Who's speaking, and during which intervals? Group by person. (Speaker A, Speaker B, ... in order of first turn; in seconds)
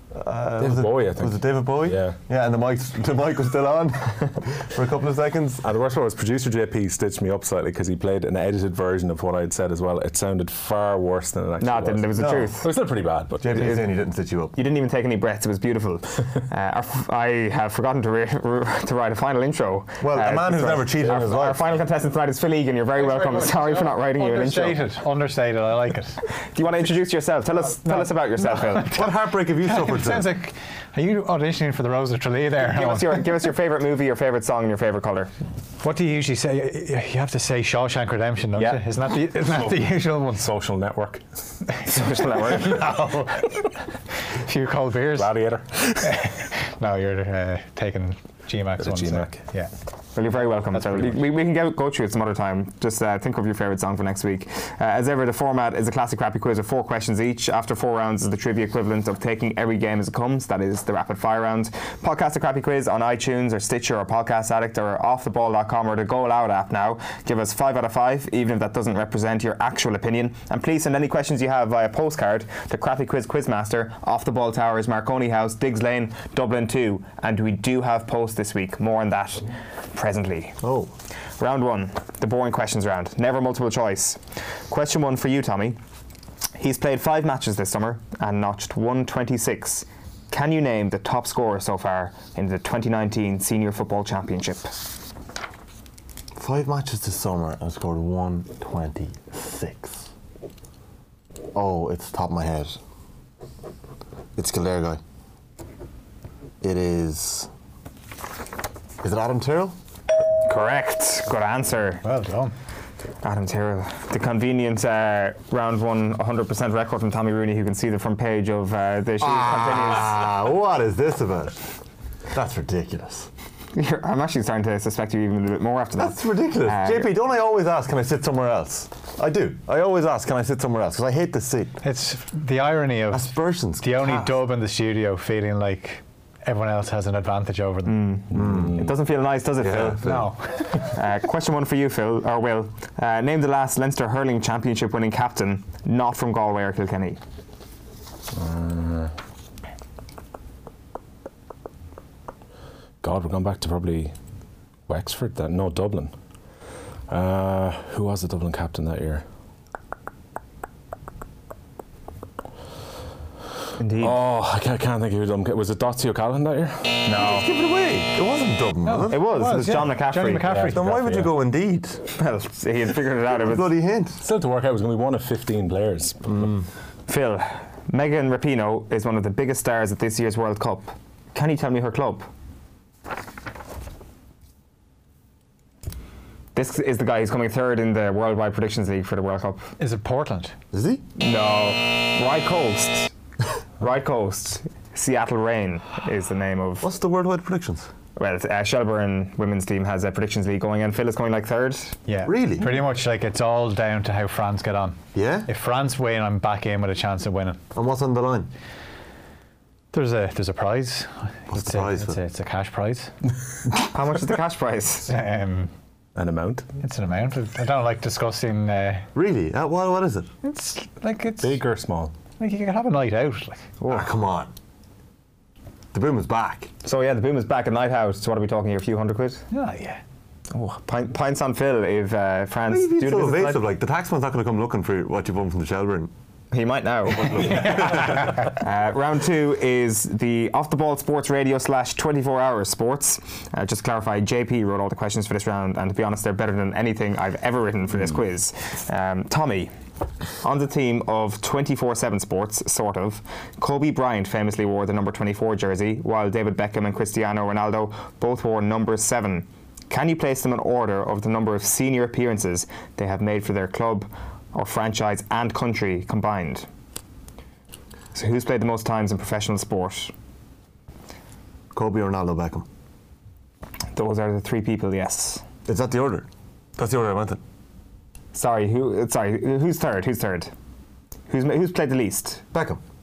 Speaker A: 0.1-5.6, 12.2-12.5, 13.4-14.5, 20.0-21.8, 28.9-30.3, 80.6-80.9, 96.3-100.1, 101.5-102.8, 104.3-105.0, 106.6-107.5, 109.0-109.7, 119.2-121.6, 122.3-123.3, 126.0-131.8, 133.1-134.3, 138.3-138.7, 139.6-140.3, 167.1-169.9, 170.7-172.1, 173.4-174.2, 176.2-176.7, 190.7-191.0, 196.8-197.9, 202.2-202.8, 205.1-205.5, 207.7-208.5, 211.5-212.2, 219.1-220.3, 223.9-224.5, 225.9-226.7, 232.7-236.1, 237.2-238.0, 271.7-272.6, 275.7-277.4, 282.5-282.8
Speaker B: 0.6-2.2, 5.6-13.6, 38.5-38.8, 39.3-41.2, 45.1-46.2, 48.8-49.4, 138.4-138.8, 148.3-149.1, 153.0-154.1, 154.9-156.1, 157.1-159.2, 164.0-167.3, 170.4-171.3, 174.2-176.2, 216.2-216.6, 221.4-222.1
Speaker C: 11.6-12.7, 13.6-13.9, 14.5-24.8, 26.4-29.1, 32.6-35.3, 41.8-42.8, 50.1-80.6, 81.4-85.8, 86.6-94.7, 110.5-112.0, 113.2-120.2, 123.7-127.1, 137.8-140.0, 140.8-147.2, 163.8-164.2, 169.1-170.5, 172.1-173.7, 177.1-182.3, 186.5-189.7, 191.2-193.1, 193.8-196.9, 198.2-202.0, 213.7-215.1, 223.8-224.1, 226.8-229.4, 230.5-233.6, 236.5-249.7, 250.4-266.7, 268.1-270.1, 273.9-275.4, 278.3-280.5, 281.3-282.4
Speaker D: 23.1-26.2, 27.8-33.3, 35.8-40.5, 42.6-43.6, 44.4-45.3, 46.0-49.7, 50.7-51.1, 112.0-112.5, 131.8-138.0, 140.0-140.6, 168.8-171.1, 189.8-190.5, 202.1-207.6, 209.9-213.1, 215.1-215.7, 216.8-219.1, 220.4-221.6, 222.4-223.6, 229.5-230.0, 237.5-238.0